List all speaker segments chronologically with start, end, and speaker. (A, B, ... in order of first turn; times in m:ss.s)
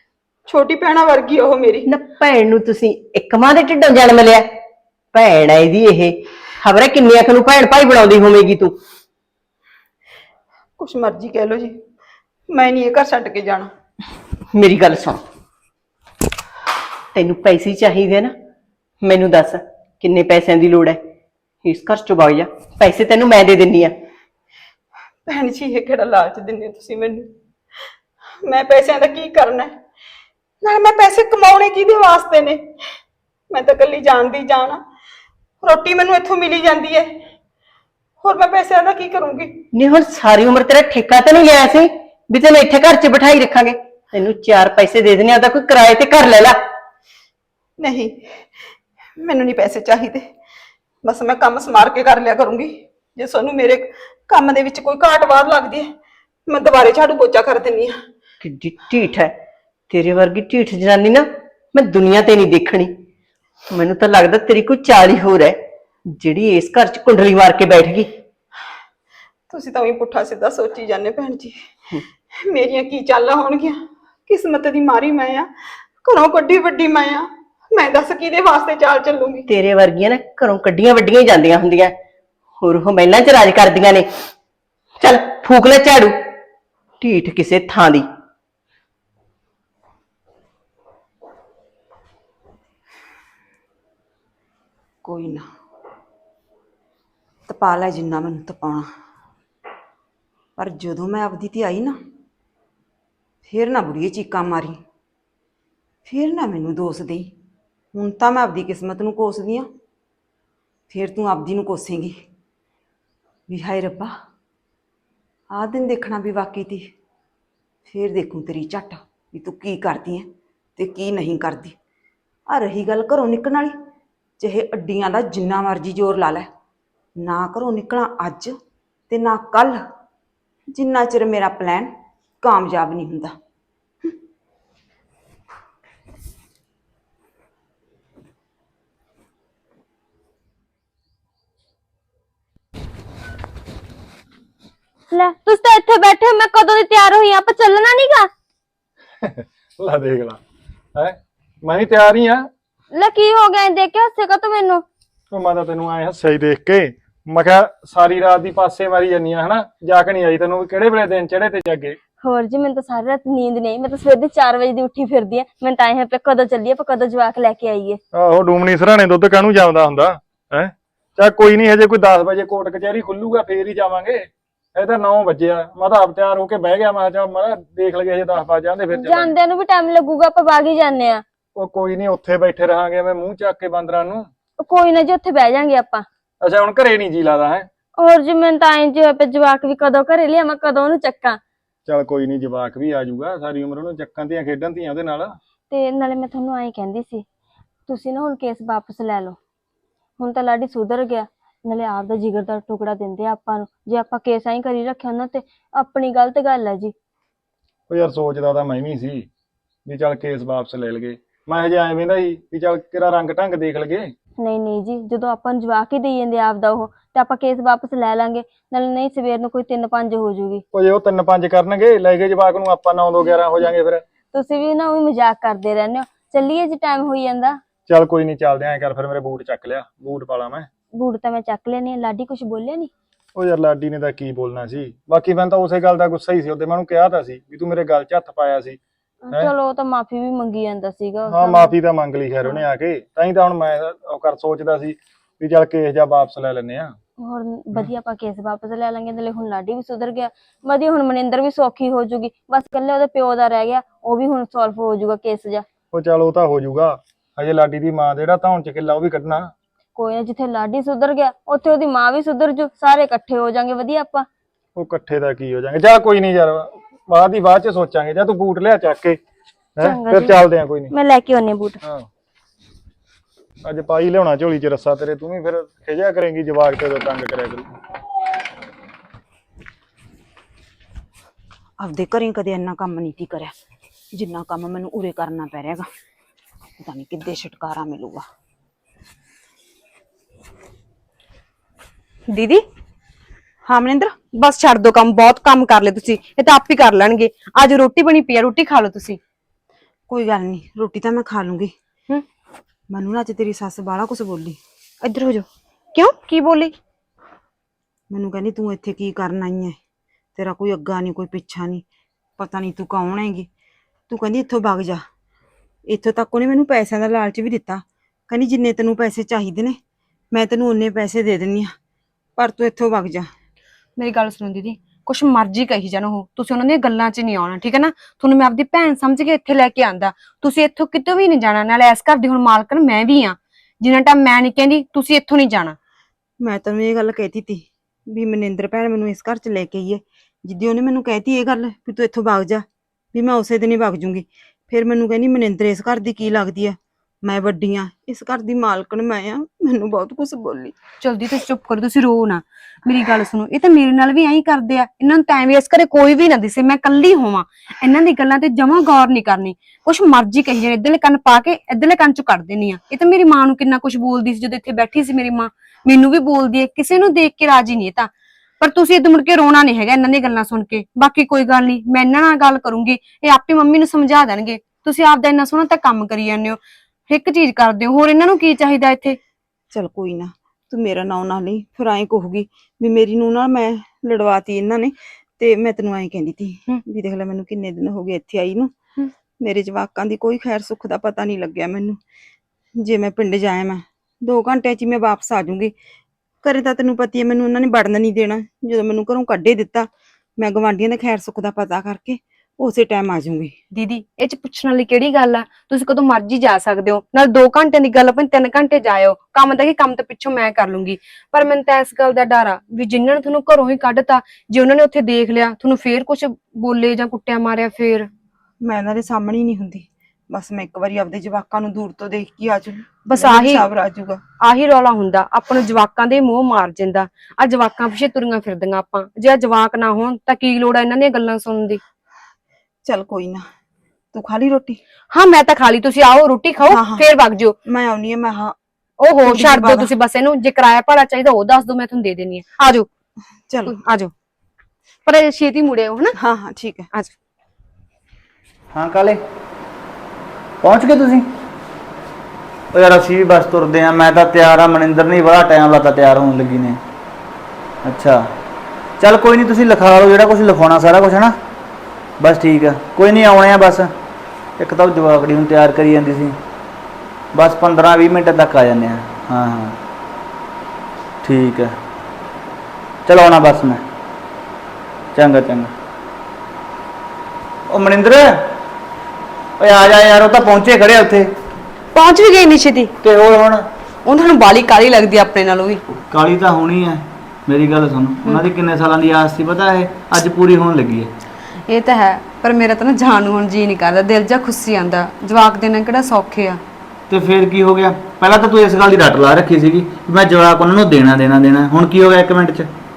0:00.4-0:01.9 A
0:01.9-0:04.5 B
0:05.1-0:08.8 B
0:10.8-0:11.8 A
0:12.5-0:13.7 A
0:14.5-0:15.2 B
0:17.1-0:18.3 B
0:19.0-0:21.0 B
0:21.6-0:24.0 B
0:25.2-0:27.3 A
0:28.4-0:29.8 A
0:30.6-0:32.8 A
0:33.5-0:34.8 A
0:35.6-0:37.2 A
0:38.2-0:39.7 A
0:39.7-0:46.6 B
0:47.8-0:48.5 A
0:49.2-0:50.3 A
0:51.0-0:55.9 A
0:56.5-0:57.9 A
0:58.4-0:59.4 B
0:59.9-1:02.9 B
1:03.7-1:08.1 B
1:09.5-1:11.6 A
1:12.3-1:19.5 A
1:19.5-1:21.9 B
1:22.6-1:24.1 B
1:25.0-1:26.2 B
1:27.0-1:28.0 B
1:35.0-1:35.5 A
1:37.4-1:38.9 A
1:40.6-1:42.0 A
1:43.4-1:44.8 A
1:46.0-1:47.3 A
1:47.9-1:49.7 A
1:50.9-1:52.2 A
1:53.5-1:54.1 A
1:55.5-1:56.9 A
1:57.8-2:01.8 A
2:02.5-2:03.7 A
2:04.4-2:06.5 A
2:07.2-2:08.5 A
2:09.1-2:09.8 A
2:10.7-2:13.3 A
2:25.1-2:28.3 C
2:29.2-2:30.4 D
2:30.9-2:32.5 D
2:32.9-2:34.8 C
2:35.3-2:42.0 D
2:42.2-2:48.0 C
2:48.1-2:59.3 D
2:58.9-3:01.2 C
3:01.6-3:04.3 D
3:04.6-3:06.0 C
3:06.4-3:07.7 D
3:08.0-3:11.4 C
3:11.8-3:15.4 D
3:15.7-3:17.2 C
3:17.9-3:19.4 C
3:20.2-3:26.9 C
3:27.9-3:29.3 D
3:29.8-3:34.1 D
3:34.4-3:40.6 C
3:40.7-3:44.0 D
3:44.3-3:47.6 C
3:47.9-3:50.7 D
3:50.9-3:52.9 C
3:53.4-3:58.8 D
3:59.2-4:01.7 C
4:01.3-4:06.9 D
4:07.2-4:15.6 C
4:15.9-4:19.5 D
4:20.0-4:24.3 C
4:24.8-4:29.2 D
4:29.8-4:30.9 D
4:29.8-4:31.8 C
4:33.6-4:37.7 D
4:41.8-4:43.5 A
4:44.1-4:45.9 A
4:46.8-4:48.2 A
4:52.3-4:52.6 E
4:53.6-4:54.2 A
4:54.3-4:59.2 E
5:00.1-5:01.7 A
5:02.9-5:04.6 A
5:05.0-5:06.7 E
5:08.1-5:09.8 A
5:10.3-5:11.8 A
5:12.4-5:13.5 A
5:14.1-5:15.0 A
5:15.9-5:19.8 A
5:20.3-5:21.7 A
5:22.4-5:23.3 A
5:24.0-5:35.8 E
5:36.4-5:50.7 A
5:51.0-6:19.2 E
6:19.7-6:28.7 A
6:29.4-6:32.0 A
6:32.8-6:35.7 A
6:36.4-6:43.5 A
6:43.7-6:58.1 E
6:58.6-7:04.2 A
7:03.1-7:03.7 E
7:04.4-7:11.8 E
7:12.8-7:13.4 A
7:14.1-7:14.8 A
7:15.1-7:17.5 E
7:16.7-7:17.0 A
7:17.6-7:18.6 A
7:19.0-7:22.9 E
7:19.2-7:19.9 A
7:23.5-7:23.8 A
7:23.6-7:24.1 E
7:25.0-7:26.2 E
7:26.2-7:26.9 A
7:28.7-7:29.2 F
7:30.6-7:31.3 F
7:32.7-7:36.8 F
7:37.8-7:38.3 F
7:39.0-7:41.4 F
7:42.2-7:43.9 F
7:44.6-7:46.4 F
7:47.3-7:49.8 F
7:51.2-7:51.8 F
7:53.0-7:53.8 F
7:55.1-7:55.7 F
7:57.7-7:58.5 F
7:59.6-8:01.3 F
8:01.9-8:02.9 E
8:03.0-8:03.7 F
8:04.0-8:05.8 E
8:06.1-8:11.1 F
8:11.7-8:16.6 E
8:17.1-8:22.7 F